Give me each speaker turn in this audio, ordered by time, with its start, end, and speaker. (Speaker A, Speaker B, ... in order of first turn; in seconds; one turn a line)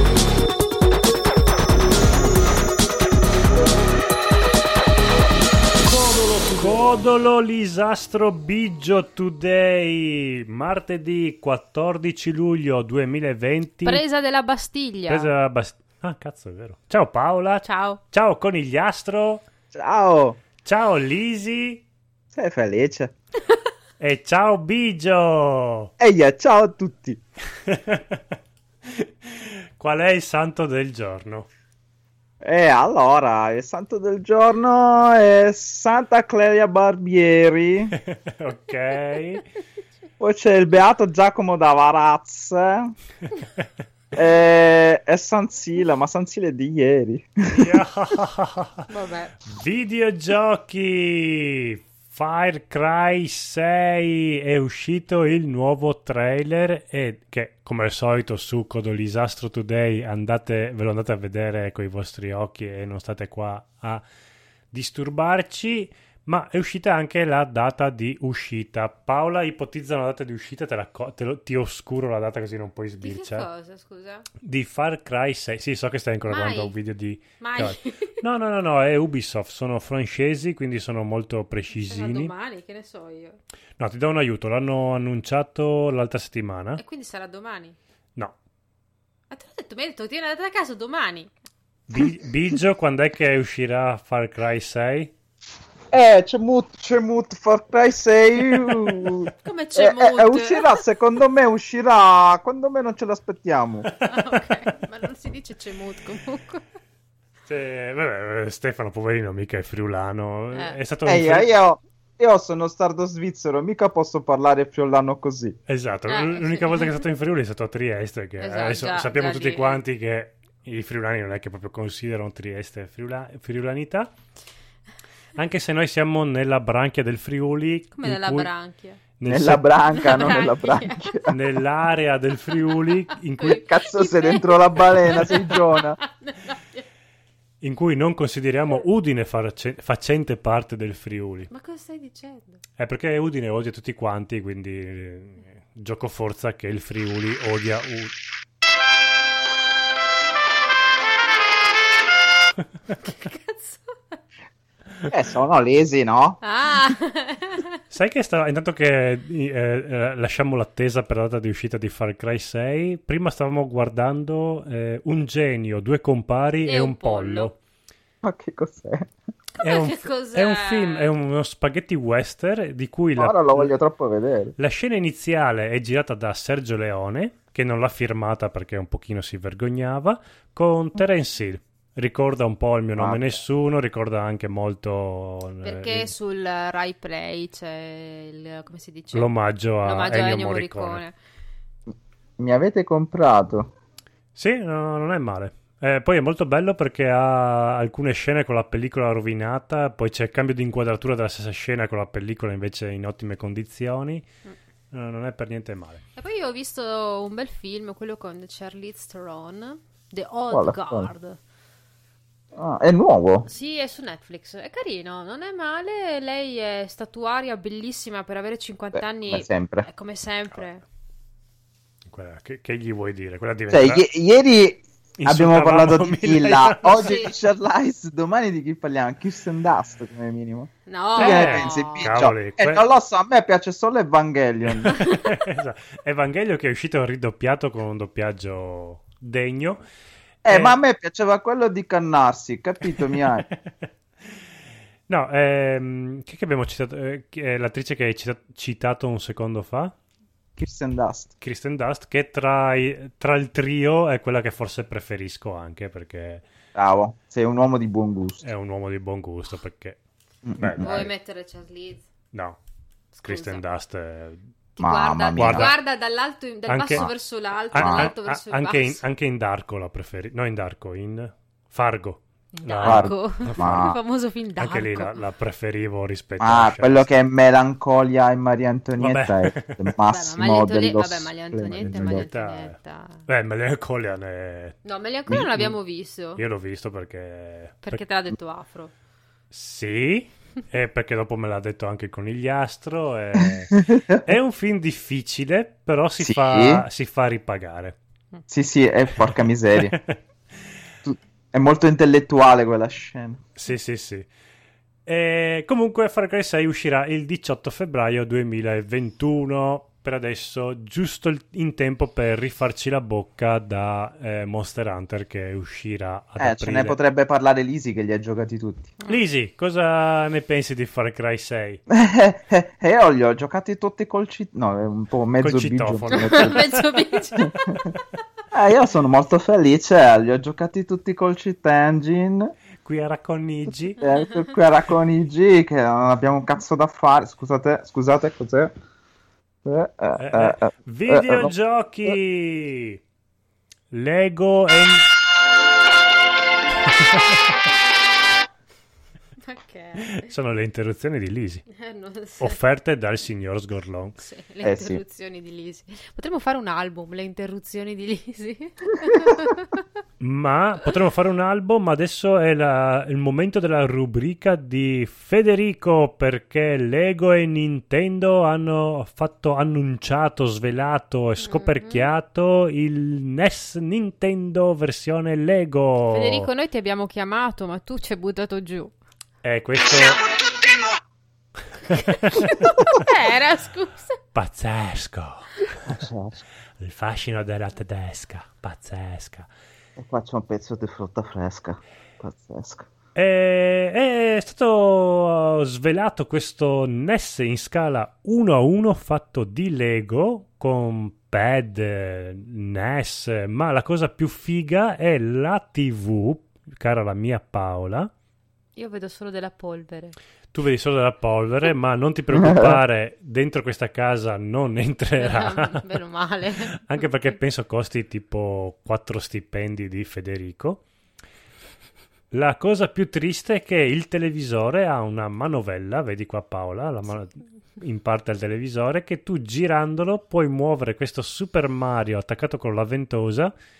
Speaker A: 5.8-14.0
Speaker B: 13.8-15.3
Speaker A: 15.1-19.4
Speaker B: 17.6-18.0
Speaker C: 19.7-20.4
Speaker A: 20.6-21.8
Speaker C: 22.3-23.1
Speaker A: 24.0-25.9
Speaker C: 26.0-27.2
Speaker A: 27.6-28.2
Speaker A: 28.9-31.5
Speaker C: 32.4-37.9
Speaker A: 38.0-39.4
Speaker C: 40.2-42.9
Speaker C: 44.1-47.8
Speaker A: 47.5-48.9
Speaker B: 48.9-49.3
Speaker A: 49.5-64.0
Speaker A: 64.7-73.5
Speaker B: 73.0-74.2
Speaker A: 74.4-82.3
Speaker B: 76.2-76.7
Speaker B: 77.4-78.2
Speaker B: 81.7-83.4
Speaker A: 83.8-86.8
Speaker B: 86.8-87.8
Speaker B: 89.3-91.3
Speaker A: 91.9-95.1
Speaker C: 95.9-103.9
Speaker B: 99.4-100.7
Speaker B: 104.0-106.6
Speaker A: 107.5-111.5
Speaker B: 110.5-110.8
Speaker C: 111.0-115.5
Speaker A: 115.7-124.1
Speaker B: 116.1-117.0
Speaker B: 118.4-119.8
Speaker A: 125.3-128.5
Speaker B: 127.9-129.0
Speaker A: 129.2-130.1
Speaker C: 129.2-131.3
Speaker B: 129.9-131.3
Speaker A: 131.3-133.7
Speaker B: 132.5-136.8
Speaker C: 133.6-136.0
Speaker A: 137.6-141.5
Speaker B: 141.5-142.6
Speaker A: 142.8-148.1
Speaker B: 152.9-154.2
Speaker C: 155.1-156.4
Speaker B: 156.4-157.8
Speaker A: 157.9-167.6
Speaker B: 166.6-167.5
Speaker C: 168.2-169.1
Speaker A: 169.6-173.7
Speaker B: 169.6-171.1
Speaker C: 173.2-174.5
Speaker A: 174.6-186.1
Speaker C: 183.0-183.3
Speaker B: 185.6-191.2
Speaker A: 189.1-191.0
Speaker C: 192.4-193.7
Speaker A: 194.3-204.2
Speaker A: 204.9-206.0
Speaker B: 206.1-211.4
Speaker C: 210.5-211.1
Speaker C: 212.5-213.5
Speaker B: 213.4-220.8
Speaker C: 218.9-219.9
Speaker A: 222.1-224.1
Speaker C: 223.7-234.9
Speaker A: 225.2-227.2
Speaker B: 226.9-227.3
Speaker B: 230.8-232.2
Speaker A: 231.2-232.9
Speaker A: 234.7-239.8
Speaker B: 234.9-235.2
Speaker C: 240.4-243.4
Speaker A: 240.5-240.8
Speaker A: 242.9-243.7
Speaker A: 245.1-249.9
Speaker C: 250.6-251.3
Speaker A: 251.4-256.4
Speaker C: 256.7-258.4
Speaker A: 258.4-260.0
Speaker C: 260.4-261.1
Speaker A: 260.6-261.1
Speaker B: 260.8-262.1
Speaker A: 262.3-262.6
Speaker B: 263.1-263.6
Speaker A: 263.2-264.4
Speaker B: 264.8-269.0
Speaker C: 264.8-265.7
Speaker A: 265.4-265.7
Speaker A: 266.7-267.1
Speaker A: 267.7-274.0
Speaker C: 267.7-268.1
Speaker B: 272.5-275.2
Speaker C: 272.8-273.9
Speaker A: 274.6-277.1
Speaker C: 276.4-282.2
Speaker A: 279.0-279.9
Speaker B: 280.1-283.2
Speaker A: 281.8-282.7
Speaker A: 283.3-284.8
Speaker B: 284.8-286.4
Speaker C: 285.3-285.8
Speaker A: 286.4-288.0
Speaker B: 287.8-288.9
Speaker A: 289.5-298.0
Speaker C: 293.4-294.2
Speaker C: 296.2-296.8
Speaker C: 298.5-299.9
Speaker A: 299.1-300.2
Speaker C: 301.0-303.4
Speaker A: 303.6-304.3
Speaker A: 305.1-317.0
Speaker C: 316.4-318.9
Speaker A: 319.1-321.8
Speaker C: 321.9-326.6
Speaker A: 325.4-326.8
Speaker B: 326.1-327.5
Speaker A: 327.6-328.0
Speaker C: 328.5-332.5
Speaker A: 332.8-334.0
Speaker C: 334.0-338.7
Speaker C: 339.6-341.5
Speaker A: 340.2-343.0
Speaker A: 343.9-345.1
Speaker A: 347.0-347.4
Speaker B: 349.4-350.3
Speaker A: 350.0-351.7
Speaker B: 351.7-352.6
Speaker A: 352.4-354.2
Speaker B: 354.2-359.8
Speaker C: 354.6-355.0
Speaker A: 360.2-376.5
Speaker B: 371.4-372.1
Speaker B: 376.1-378.9
Speaker A: 379.4-380.2
Speaker A: 381.9-382.5
Speaker B: 382.3-384.2
Speaker A: 384.3-385.9
Speaker C: 385.9-386.4
Speaker A: 386.8-389.5
Speaker C: 390.0-392.9
Speaker A: 393.1-408.1
Speaker B: 408.8-410.1
Speaker A: 410.5-415.8
Speaker C: 412.3-412.8
Speaker B: 415.2-417.1
Speaker A: 416.7-420.8
Speaker A: 422.3-433.5